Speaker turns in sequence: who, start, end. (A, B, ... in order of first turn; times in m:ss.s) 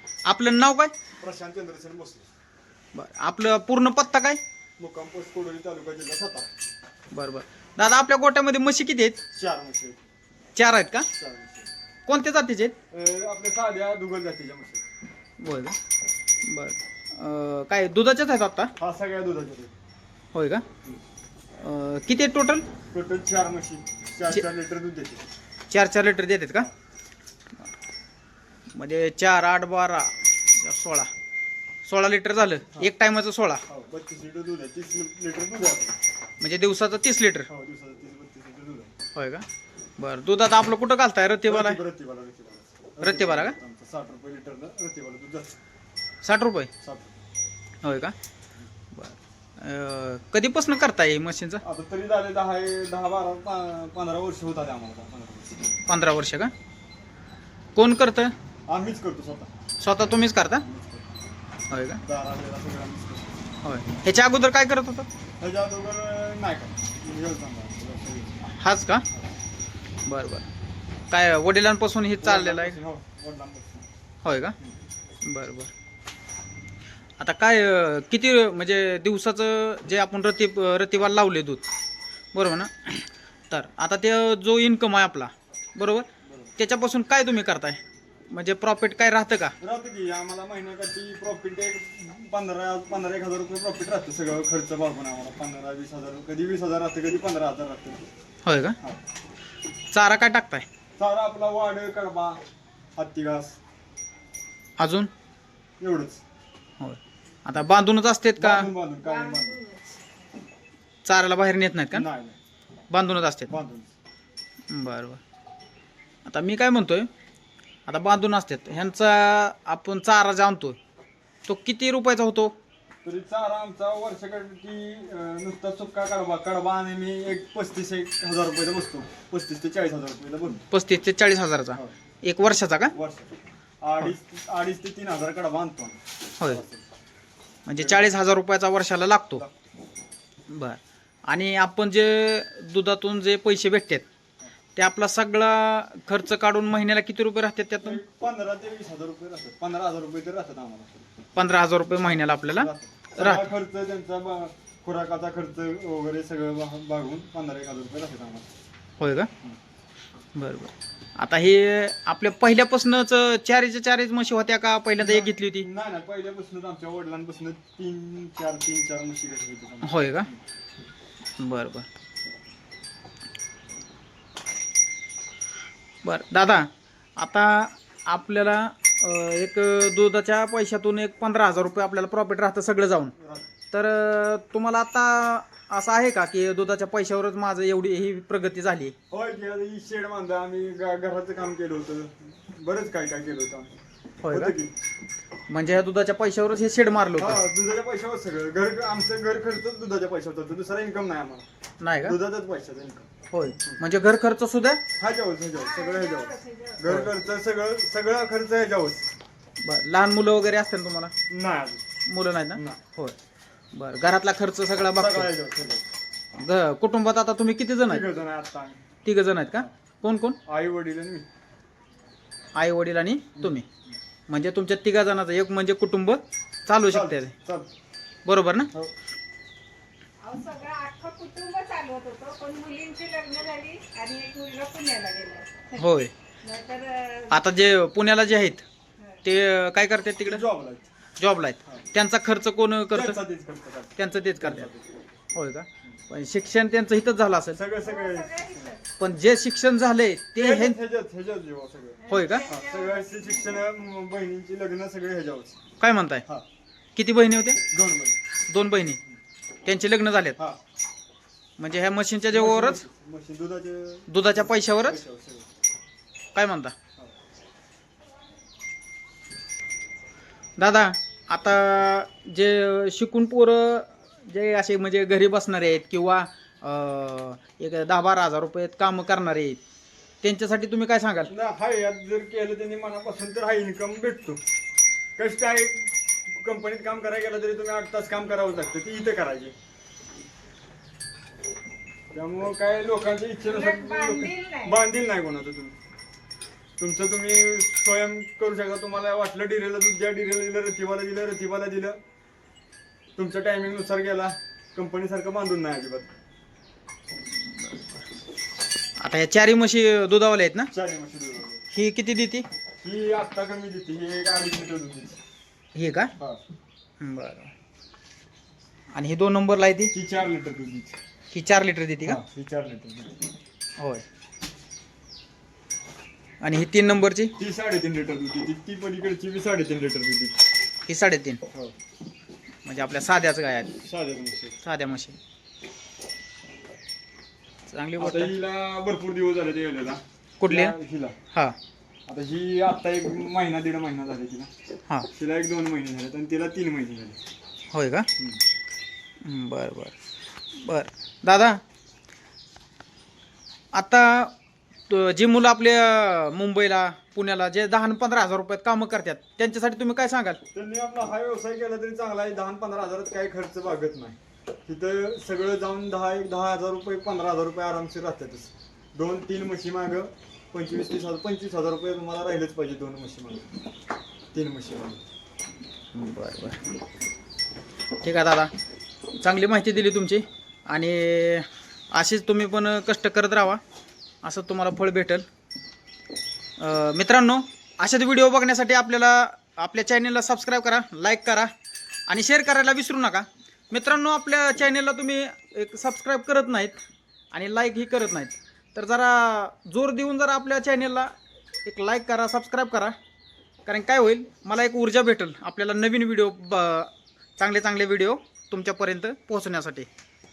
0:00.3-0:01.0 A
0:01.2-0:02.3 B
0:02.9-0:04.4 A
0:04.8-0:06.5 B
0:07.1-0:09.2 A
0:09.3-0:10.0 B
0:10.6-0:11.1 A
0:11.2-0:11.7 B
0:12.1-0:12.8 A
0:12.9-0:14.8 B
0:15.4-0:15.8 A
0:16.4-0:18.7 A
0:18.8-0:19.7 B
0:20.3-0:20.7 A
0:21.6-0:22.7 A
0:22.9-0:25.3 B
0:25.7-0:26.7 A
0:28.7-0:31.1 A
0:31.8-0:33.6 A
0:33.7-0:36.0 B
0:36.4-0:37.5 A
0:37.5-0:38.9 B
0:39.1-0:39.5 A
0:40.0-0:41.8 A
0:41.5-0:45.6 B
0:43.0-0:43.6 A
0:46.2-0:46.7 A
0:46.8-0:47.2 B
0:47.8-0:48.1 A
0:48.9-0:51.6 A
0:51.6-0:55.8 B
0:55.9-0:56.5 A
0:57.8-0:58.3 A
0:58.7-0:59.5 B
0:59.8-1:00.6 A
1:00.6-1:01.1 B
1:01.7-1:02.0 A
1:02.0-1:03.4 B
1:03.6-1:05.1 A
1:05.4-1:08.4 B
1:08.4-1:09.0 A
1:10.0-1:10.5 A
1:11.1-1:12.8 A
1:12.2-1:13.8 B
1:14.2-1:14.6 A
1:15.2-1:15.7 A
1:17.2-1:21.6 A
1:22.3-1:29.6 A
1:26.2-1:26.5 B
1:29.6-1:38.1 B
1:38.4-1:38.8 A
1:39.9-1:40.7 A
1:41.0-1:42.4 B
1:43.0-1:43.6 B
1:44.8-1:45.1 A
1:45.8-1:46.2 B
1:46.8-1:48.7 A
1:48.4-1:49.7 B
1:49.3-1:50.0 C
1:51.0-1:52.1 A
1:51.9-1:52.4 B
1:52.9-1:53.5 A
1:53.5-1:53.9 B
1:54.7-1:55.2 A
1:56.3-1:57.1 A
1:57.9-2:00.8 A
2:01.5-2:02.6 A
2:03.0-2:10.6 B
2:10.7-2:12.9 A
2:12.9-2:16.8 B
2:17.7-2:19.4 A
2:17.8-2:18.1 B
2:19.4-2:19.6 B
2:20.5-2:24.0 A
2:24.8-2:28.0 A
2:27.8-2:31.1 B
2:31.4-2:33.5 A
2:32.0-2:38.5 B
2:39.0-2:39.3 A
2:40.4-2:45.7 A
2:45.0-2:50.4 B
2:49.8-2:50.3 A
2:51.4-2:51.9 A
2:56.0-3:03.1 A
3:03.2-3:03.5 B
3:03.7-3:08.9 A
3:09.1-3:13.7 B
3:14.2-3:14.6 A
3:14.3-3:14.7 B
3:15.5-3:17.4 A
3:17.2-3:21.5 B
3:21.8-3:22.2 A
3:22.0-3:23.1 B
3:23.3-3:24.8 A
3:25.0-3:29.1 B
3:25.6-3:26.8 C
3:26.9-3:27.1 A
3:29.6-3:31.1 A
3:31.3-3:31.8 B
3:32.1-3:33.2 A
3:32.5-3:32.8 B
3:33.7-3:35.3 A
3:34.9-3:35.9 B
3:36.4-3:38.0 A
3:37.8-3:38.8 B
3:39.0-3:40.4 A
3:40.5-3:41.3 B
3:42.6-3:43.6 A
3:44.3-3:47.3 A
3:46.9-3:47.7 B
3:48.3-3:48.7 A
3:50.2-3:55.8 C
3:55.8-3:56.1 A
3:56.4-3:57.3 C
3:57.3-3:58.6 A
3:59.2-4:00.4 A
4:00.2-4:00.9 B
4:01.2-4:03.2 A
4:02.9-4:05.0 B
4:04.0-4:04.7 A
4:05.4-4:07.6 A
4:07.5-4:08.8 B
4:07.8-4:08.8 C
4:09.0-4:10.8 A
4:10.4-4:15.6 B
4:12.1-4:13.0 C
4:12.1-4:12.5 A
4:15.8-4:16.3 A
4:17.0-4:17.6 A
4:17.7-4:18.2 B
4:18.5-4:19.0 A
4:19.6-4:20.4 A
4:21.6-4:22.8 A
4:22.3-4:25.5 B
4:24.1-4:25.0 A
4:26.4-4:26.7 A
4:30.6-4:39.6 A
4:40.2-4:41.3 A
4:41.3-4:44.4 B
4:45.2-4:49.5 B
4:52.1-4:55.8 B
4:53.5-4:54.8 C
4:56.8-5:02.0 B
5:03.2-5:06.1 B
5:09.0-5:10.7 A
5:10.7-5:11.6 B
5:11.7-5:12.5 A
5:12.8-5:15.2 B
5:15.8-5:16.1 A
5:17.0-5:17.5 A
5:18.9-5:19.9 A
5:19.9-5:21.0 B
5:21.3-5:22.2 A
5:22.0-5:23.2 B
5:23.8-5:24.0 A
5:26.4-5:27.3 A
5:27.4-5:30.4 B
5:30.9-5:31.4 A
5:32.6-5:33.8 A
5:33.8-5:34.6 B
5:34.6-5:35.2 A
5:37.7-5:38.4 A
5:38.0-5:41.2 B
5:40.4-5:40.8 A
5:42.1-5:44.5 B
5:45.1-5:47.2 B
5:47.7-5:48.1 A
5:49.2-5:50.0 A
5:50.5-5:51.6 A
5:53.7-5:54.4 A
5:54.9-6:00.4 A
6:00.5-6:13.5 B
6:14.3-6:15.0 B
6:15.9-6:16.6 A
6:18.0-6:18.5 A
6:19.2-6:23.6 A
6:24.2-6:25.2 A
6:26.6-6:31.5 A
6:32.1-6:36.8 A
6:37.3-6:41.1 A
6:41.6-6:43.0 A
6:43.7-6:49.9 A